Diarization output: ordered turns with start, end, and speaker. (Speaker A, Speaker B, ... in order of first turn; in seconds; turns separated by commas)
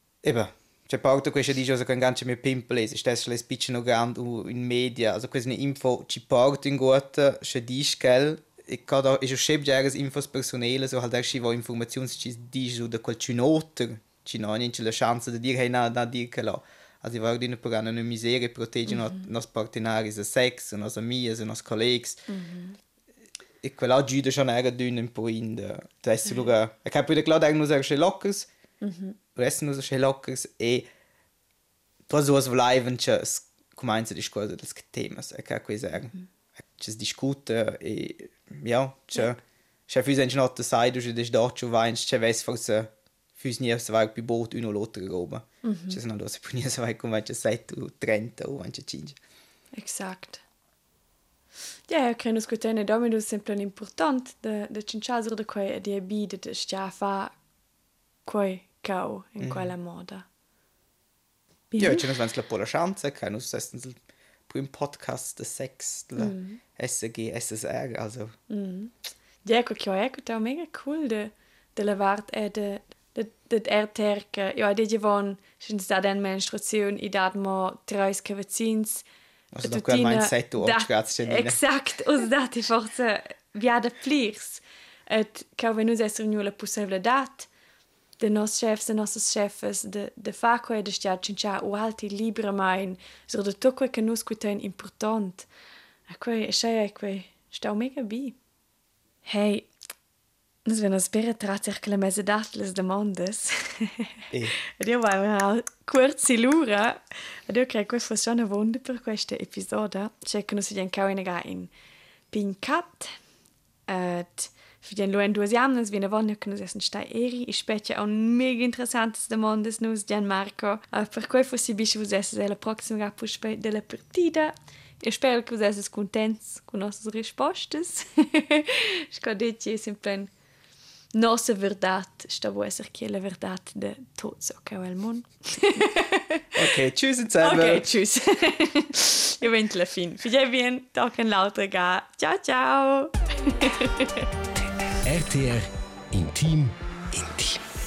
Speaker A: 0.2-22.2, Speaker B: 22.3-22.8, Speaker A: 23.6-28.5, Speaker B: 28.8-29.2, Speaker A: 29.4-30.9, Speaker A: 32.1-36.1, Speaker A: 36.8-49.2, Speaker B: 45.6-46.0, Speaker B: 49.7-50.4, Speaker B: 51.9-57.3, Speaker B: 58.3-60.2, Speaker A: 59.4-59.7, Speaker B: 61.7-62.1, Speaker A: 61.8-68.3, Speaker B: 66.2-66.6, Speaker B: 68.5-79.1, Speaker A: 79.5-81.6, Speaker B: 79.6-87.5, Speaker B: 88.2-95.5, Speaker B: 96.1-98.4, Speaker B: 99.2-99.7, Speaker B: 100.7-104.1, Speaker B: 104.8-111.7, Speaker B: 112.3-113.2, Speaker B: 113.9-130.3, Speaker B: 131.1-136.5, Speaker A: 136.6-137.9, Speaker B: 137.4-144.3, Speaker C: 145.0-147.6